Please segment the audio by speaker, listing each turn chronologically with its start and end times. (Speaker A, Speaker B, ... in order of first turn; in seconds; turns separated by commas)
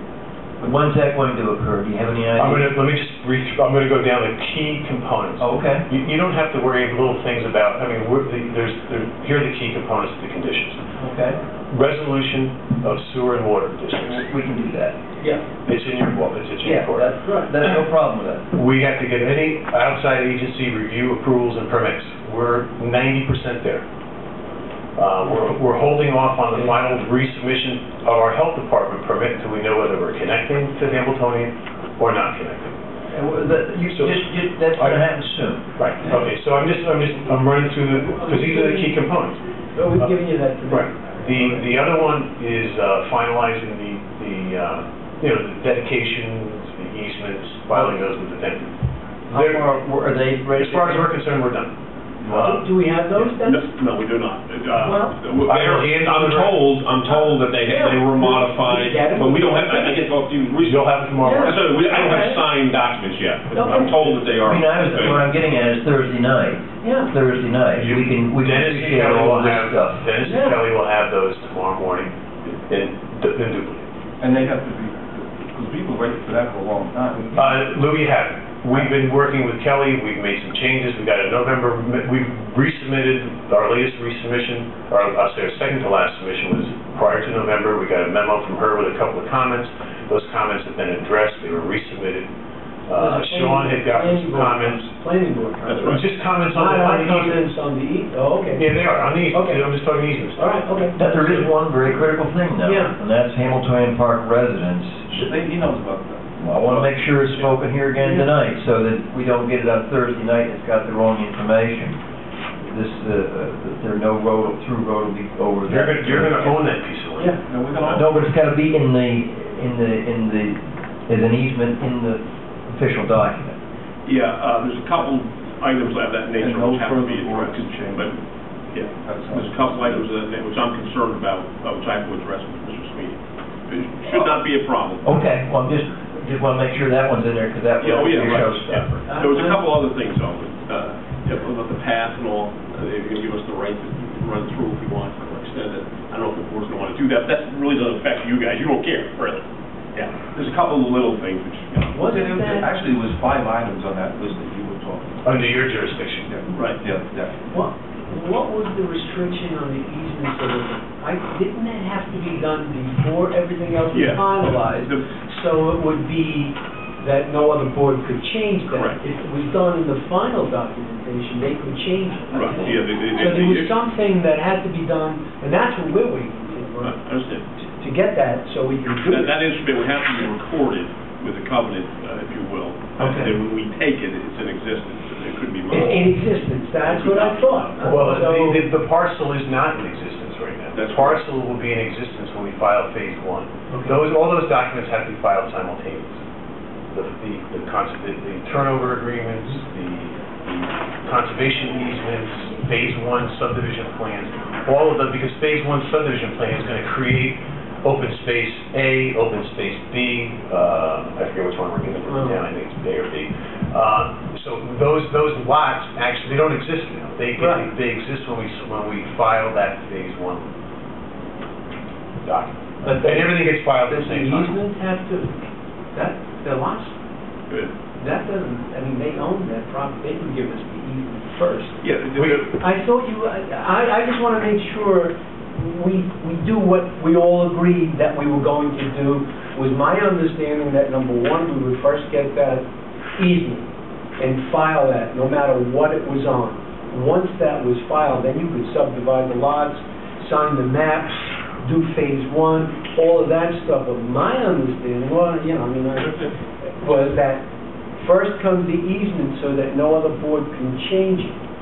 Speaker A: 0.6-2.7, Speaker B: 2.4-10.8, Speaker A: 5.4-5.8, Speaker A: 11.0-11.4, Speaker B: 11.7-14.3, Speaker A: 14.1-15.0, Speaker B: 15.6-17.1, Speaker A: 16.6-18.5, Speaker B: 18.5-23.8, Speaker B: 24.9-32.8, Speaker A: 33.1-35.6, Speaker B: 34.8-35.0, Speaker B: 35.8-39.4, Speaker C: 37.8-39.0, Speaker C: 39.7-41.7, Speaker B: 40.7-48.8, Speaker A: 49.3-51.1, Speaker B: 49.3-49.7, Speaker B: 50.5-52.7, Speaker C: 52.3-53.7, Speaker D: 53.4-65.3, Speaker C: 54.8-55.2, Speaker B: 55.4-56.6, Speaker C: 57.1-60.1, Speaker B: 60.6-61.7, Speaker C: 61.2-62.4, Speaker C: 63.5-64.0, Speaker A: 64.4-70.0, Speaker C: 66.8-67.1, Speaker B: 67.7-73.9, Speaker C: 70.2-70.6, Speaker E: 74.2-77.5, Speaker B: 77.3-92.3, Speaker B: 92.9-94.8, Speaker C: 92.9-99.7, Speaker D: 95.6-96.0, Speaker B: 95.8-97.5, Speaker B: 98.5-101.5, Speaker C: 100.4-100.9, Speaker A: 100.9-105.3, Speaker C: 102.6-102.9, Speaker E: 105.1-106.9, Speaker A: 106.4-112.0, Speaker C: 108.0-108.3, Speaker A: 112.6-116.6, Speaker B: 115.6-117.3, Speaker E: 117.4-118.2, Speaker A: 117.9-123.6, Speaker D: 124.0-128.2, Speaker E: 126.3-128.1, Speaker D: 128.7-135.0, Speaker E: 128.8-130.1, Speaker A: 135.0-139.0, Speaker D: 137.8-152.1, Speaker C: 139.1-139.6, Speaker C: 151.9-152.7, Speaker E: 152.0-155.3, Speaker B: 155.2-156.3, Speaker E: 156.2-157.4, Speaker D: 156.5-156.8, Speaker C: 157.5-177.0, Speaker D: 163.9-165.1, Speaker D: 168.7-169.0, Speaker D: 172.3-173.8, Speaker D: 176.8-177.4, Speaker C: 177.6-179.4, Speaker D: 179.1-188.2, Speaker C: 183.0-183.3, Speaker C: 185.7-188.7, Speaker B: 187.8-196.2, Speaker D: 190.7-191.2, Speaker C: 193.7-194.0, Speaker B: 196.9-220.4, Speaker C: 212.1-212.4, Speaker C: 217.4-217.7, Speaker B: 222.2-224.6, Speaker C: 222.8-225.4, Speaker C: 225.9-226.9, Speaker C: 228.0-231.8, Speaker D: 231.8-232.6, Speaker B: 232.2-232.4, Speaker C: 232.5-242.7, Speaker C: 243.2-256.2, Speaker D: 256.0-256.3, Speaker C: 256.8-257.4, Speaker C: 258.0-261.4